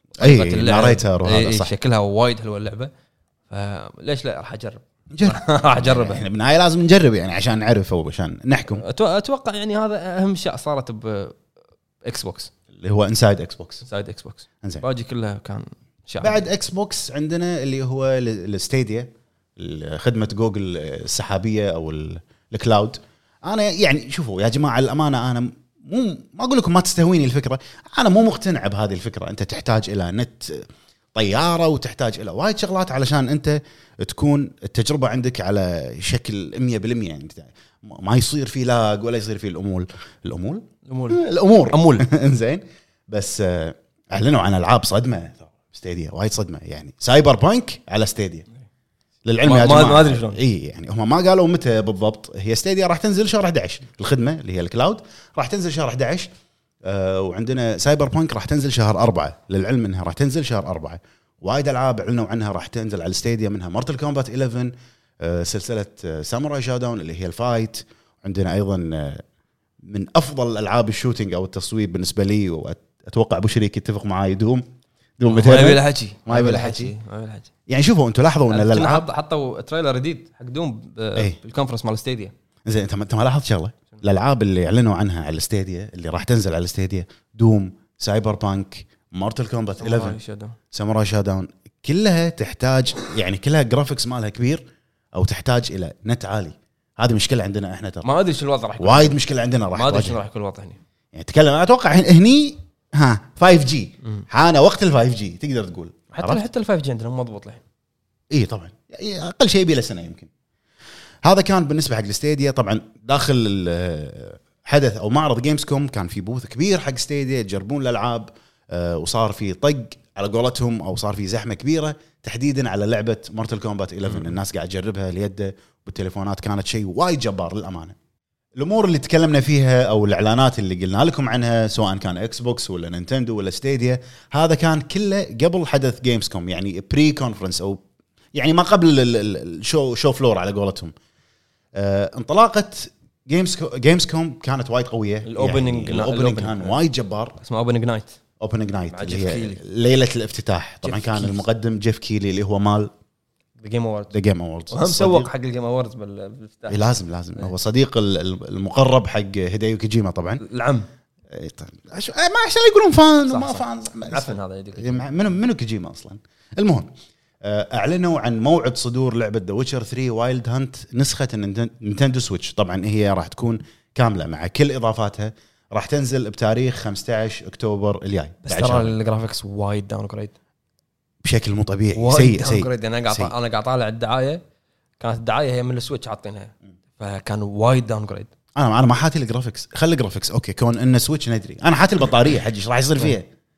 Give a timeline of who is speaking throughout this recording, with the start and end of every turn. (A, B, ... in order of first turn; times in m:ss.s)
0:00.2-0:02.9 A
0:00.2-0:01.7 B
0:03.5-0:06.3 A
0:05.1-0:08.8 B
0:08.8-0:11.4 A
0:12.0-0:12.5 A
0:12.7-0:13.8 B
0:13.8-0:16.4 A
0:16.2-0:48.5 B
0:40.9-0:42.1 A
0:49.3-0:56.3 B
0:49.4-0:50.4 A
0:56.8-1:09.2 B
1:09.8-1:14.6 B
1:15.2-1:16.9 B
1:15.3-1:17.5 A
1:17.7-1:19.1 B
1:18.5-1:22.3 A
1:22.6-1:30.2 B
1:29.8-1:30.6 A
1:30.7-1:34.6 B
1:35.1-1:38.1 B
1:38.0-1:39.2 A
1:38.8-1:40.2 B
1:39.7-1:40.8 A
1:41.1-1:46.5 B
1:46.1-1:47.6 A
1:48.3-1:50.3 B
1:51.2-2:08.0 B
2:04.1-2:04.4 A
2:08.6-2:17.8 B
2:18.3-2:20.9 B
2:21.8-2:27.4 B
2:25.2-2:26.8 A
2:27.4-2:28.2 A
2:28.4-2:32.9 B
2:28.9-2:29.6 A
2:30.8-2:31.4 A
2:33.6-2:34.2 A
2:34.1-2:35.3 B
2:34.7-2:36.8 A
2:36.7-2:40.4 B
2:40.4-2:40.9 A
2:41.3-2:46.9 B
2:43.2-2:45.0 A
2:47.4-2:58.9 B
2:58.4-3:00.3 A
3:01.2-3:03.3 B
3:02.0-3:04.4 A
3:05.0-3:08.3 A
3:08.6-3:13.3 B